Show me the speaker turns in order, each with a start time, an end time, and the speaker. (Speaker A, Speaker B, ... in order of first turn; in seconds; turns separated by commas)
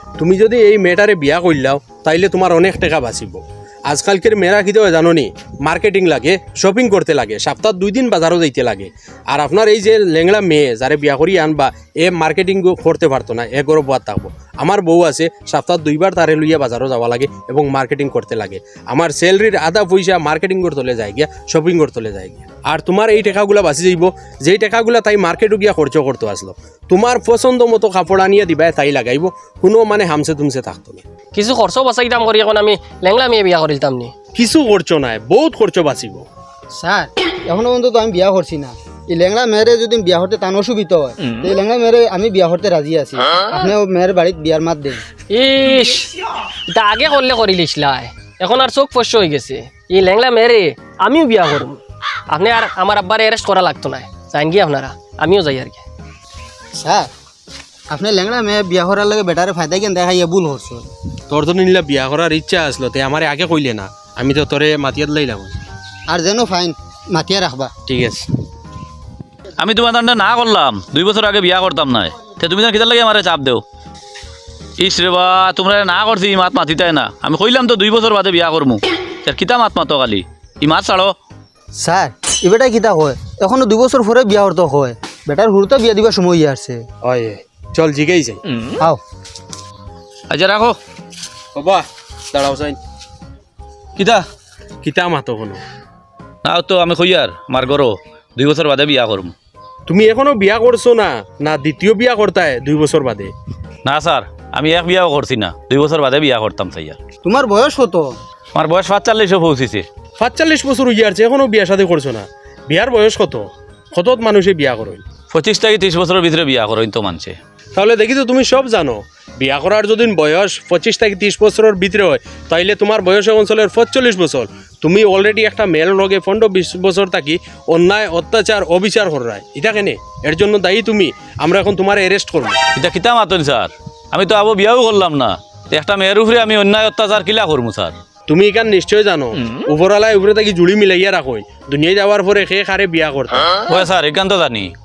Speaker A: 0.2-31.0, Speaker B: 31.3-34.1, Speaker A: 34.4-36.2, Speaker C: 36.8-45.0, Speaker B: 45.3-46.1, Speaker B: 46.7-55.9, Speaker C: 56.8-57.1, Speaker C: 57.9-60.8, Speaker A: 61.3-65.5, Speaker C: 66.1-67.7, Speaker A: 67.9-68.3, Speaker D: 69.6-73.6, Speaker D: 74.8-81.2, Speaker C: 81.8-86.8, Speaker A: 87.0-88.4, Speaker D: 90.3-90.8, Speaker A: 91.5-92.8, Speaker A: 94.0-94.2, Speaker A: 94.8-95.6, Speaker D: 96.4-99.3, Speaker A: 99.9-103.3, Speaker D: 103.8-107.0, Speaker C: 107.2-108.1, Speaker D: 108.5-109.8, Speaker A: 110.2-115.0, Speaker D: 115.3-117.4, Speaker A: 117.8-132.6, Speaker D: 132.8-137.9, Speaker A: 138.3-143.6, Speaker D: 143.7-144.7